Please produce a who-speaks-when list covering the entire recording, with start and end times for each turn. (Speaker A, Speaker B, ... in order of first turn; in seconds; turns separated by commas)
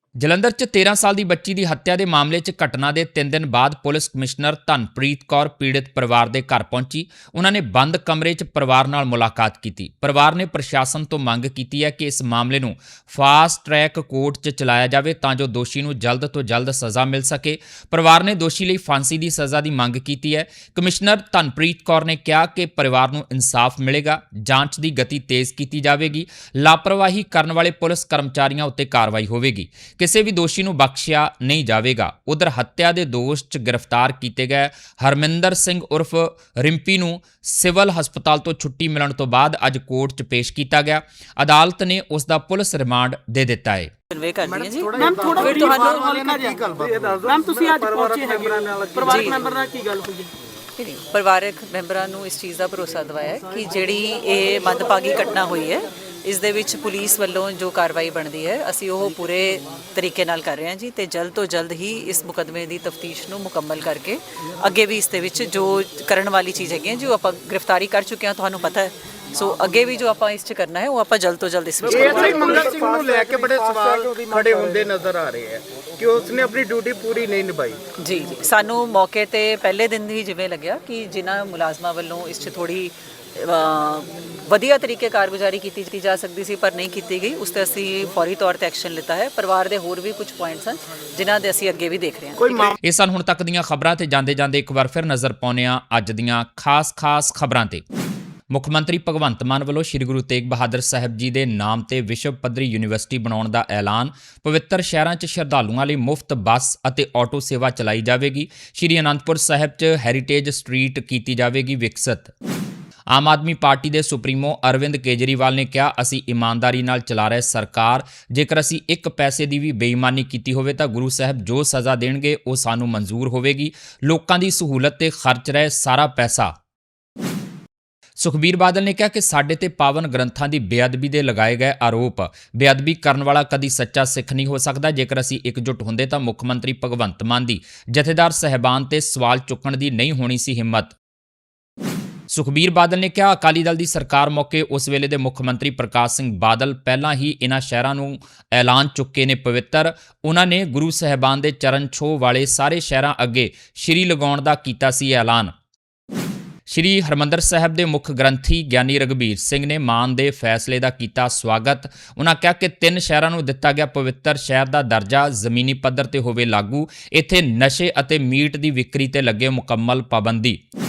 Speaker A: 0.2-43.9, Speaker B: 44.1-46.1, Speaker C: 44.4-49.4, Speaker D: 45.0-50.3, Speaker B: 49.0-49.4, Speaker B: 50.8-72.6, Speaker D: 71.8-74.8, Speaker C: 71.8-77.8, Speaker B: 78.0-92.7, Speaker C: 92.4-92.7, Speaker A: 92.8-97.8, Speaker A: 98.5-112.3, Speaker A: 113.1-126.5, Speaker A: 128.2-140.9, Speaker A: 142.3-155.5, Speaker A: 156.7-170.6